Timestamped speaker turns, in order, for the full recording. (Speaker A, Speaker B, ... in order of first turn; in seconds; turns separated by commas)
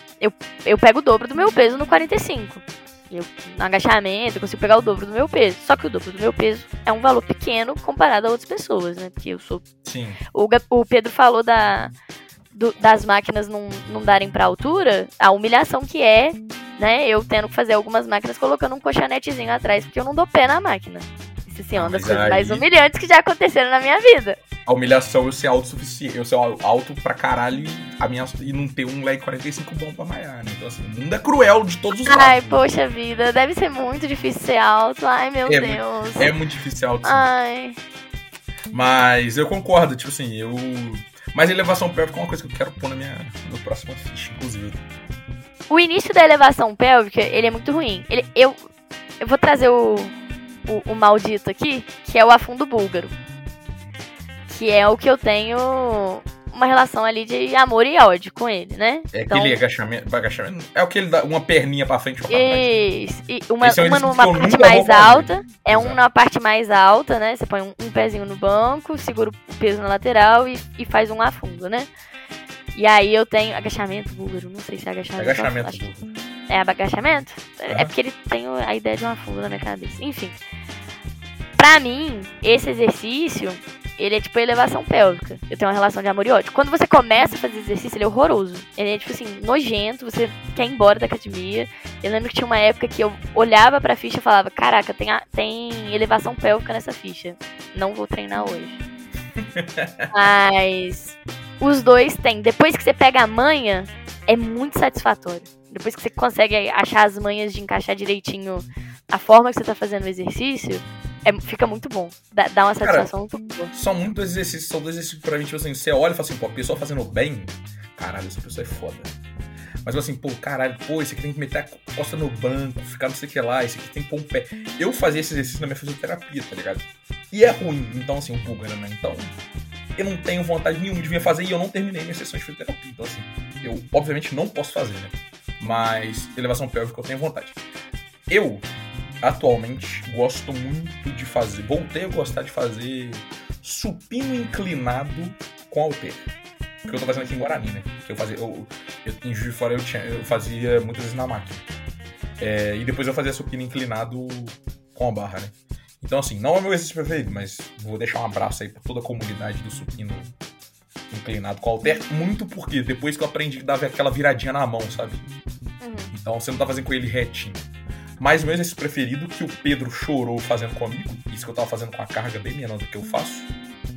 Speaker A: 0.2-9.6, Speaker B: 9.8-10.2, Speaker A: 10.3-11.9, Speaker A: 12.5-24.4, Speaker B: 21.8-22.6, Speaker B: 24.7-32.6, Speaker A: 32.0-36.3, Speaker B: 35.5-37.3, Speaker A: 37.0-37.8, Speaker B: 38.7-44.8, Speaker A: 45.7-48.6, Speaker A: 49.2-50.2, Speaker A: 50.7-53.1, Speaker A: 54.5-59.6, Speaker B: 59.1-62.9, Speaker A: 62.3-71.9, Speaker B: 63.6-66.0, Speaker A: 72.7-75.9, Speaker B: 75.2-76.1, Speaker A: 76.5-80.4, Speaker A: 81.6-98.8, Speaker B: 99.4-100.1, Speaker A: 100.1-113.7, Speaker B: 112.8-113.1, Speaker B: 113.7-119.1, Speaker B: 119.8-129.3, Speaker B: 130.0-137.6, Speaker B: 138.3-138.7, Speaker B: 139.2-146.3, Speaker B: 146.8-151.7, Speaker B: 152.4-160.3, Speaker B: 161.1-165.3, Speaker A: 165.8-166.1, Speaker B: 166.1-167.7, Speaker B: 168.2-173.5